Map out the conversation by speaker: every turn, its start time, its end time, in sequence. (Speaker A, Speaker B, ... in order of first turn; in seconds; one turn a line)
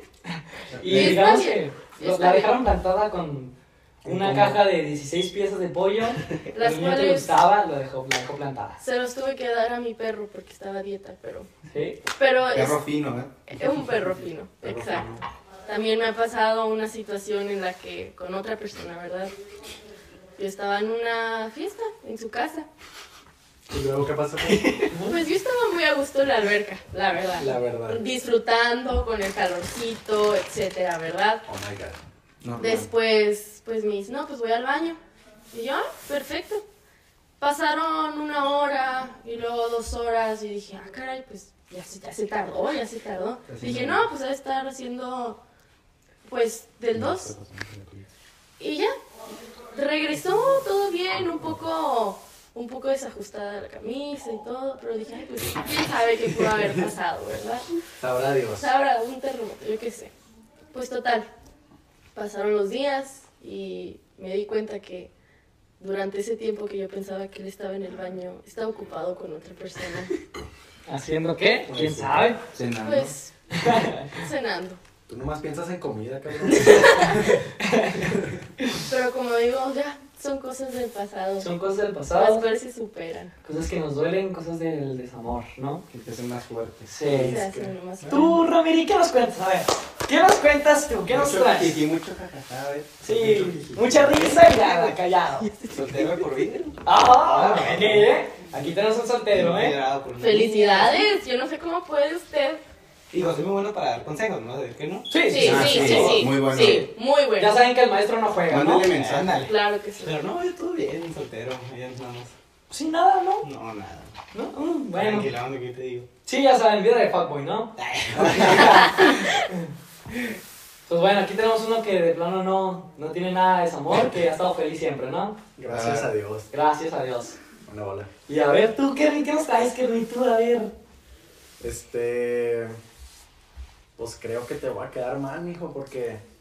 Speaker A: 0.7-8.8
Speaker B: 0.8-2.6
Speaker C: 0.9-1.1
Speaker D: 4.0-4.6
Speaker B: 6.5-7.4
Speaker B: 8.8-11.5
Speaker A: 11.7-12.0
Speaker B: 12.2-12.8
Speaker C: 12.5-13.3
Speaker B: 13.5-19.3
Speaker D: 14.6-15.2
Speaker B: 20.4-22.7
Speaker D: 23.7-24.9
Speaker B: 25.1-31.4
Speaker D: 27.4-28.0
Speaker D: 31.4-32.0
Speaker C: 32.4-32.9
Speaker B: 32.6-35.0
Speaker B: 35.5-36.6
Speaker B: 37.4-45.4
Speaker C: 43.5-44.0
Speaker B: 46.2-47.3
Speaker D: 46.9-48.1
Speaker B: 48.6-48.9
Speaker B: 49.7-57.7
Speaker D: 58.0-58.7
Speaker B: 58.6-60.1
Speaker B: 60.7-61.3
Speaker B: 62.1-65.1
Speaker B: 65.8-70.1
Speaker A: 70.9-72.4
Speaker D: 71.7-72.3
Speaker C: 72.5-73.1
Speaker B: 72.8-74.8
Speaker A: 73.5-74.0
Speaker D: 75.1-77.5
Speaker A: 76.5-78.1
Speaker B: 78.8-81.5
Speaker A: 81.4-82.4
Speaker B: 82.1-83.3
Speaker A: 83.4-85.8
Speaker C: 85.9-86.9
Speaker A: 86.9-87.4
Speaker D: 87.0-87.8
Speaker B: 87.1-88.4
Speaker A: 88.0-91.8
Speaker C: 91.1-92.7
Speaker E: 91.4-92.0
Speaker E: 92.5-92.9
Speaker A: 93.0-95.5
Speaker E: 94.0-94.9
Speaker E: 95.6-98.8
Speaker A: 96.8-99.8
Speaker E: 99.3-100.8
Speaker B: 100.2-102.6
Speaker A: 100.5-101.0
Speaker E: 103.1-106.2
Speaker A: 105.1-108.9
Speaker B: 105.3-107.6
Speaker C: 105.4-106.9
Speaker C: 108.5-109.5
Speaker E: 108.9-112.3
Speaker B: 109.4-110.2
Speaker A: 112.7-113.5
Speaker E: 113.4-114.1
Speaker A: 114.3-115.3
Speaker E: 114.9-116.1
Speaker A: 116.2-117.7
Speaker E: 117.8-119.1
Speaker D: 118.2-118.6
Speaker A: 118.3-119.6
Speaker A: 120.8-125.4
Speaker D: 125.5-126.5
Speaker C: 125.7-126.1
Speaker A: 126.5-127.4
Speaker D: 127.7-128.1
Speaker A: 128.3-130.7
Speaker D: 131.6-132.8
Speaker D: 133.9-136.2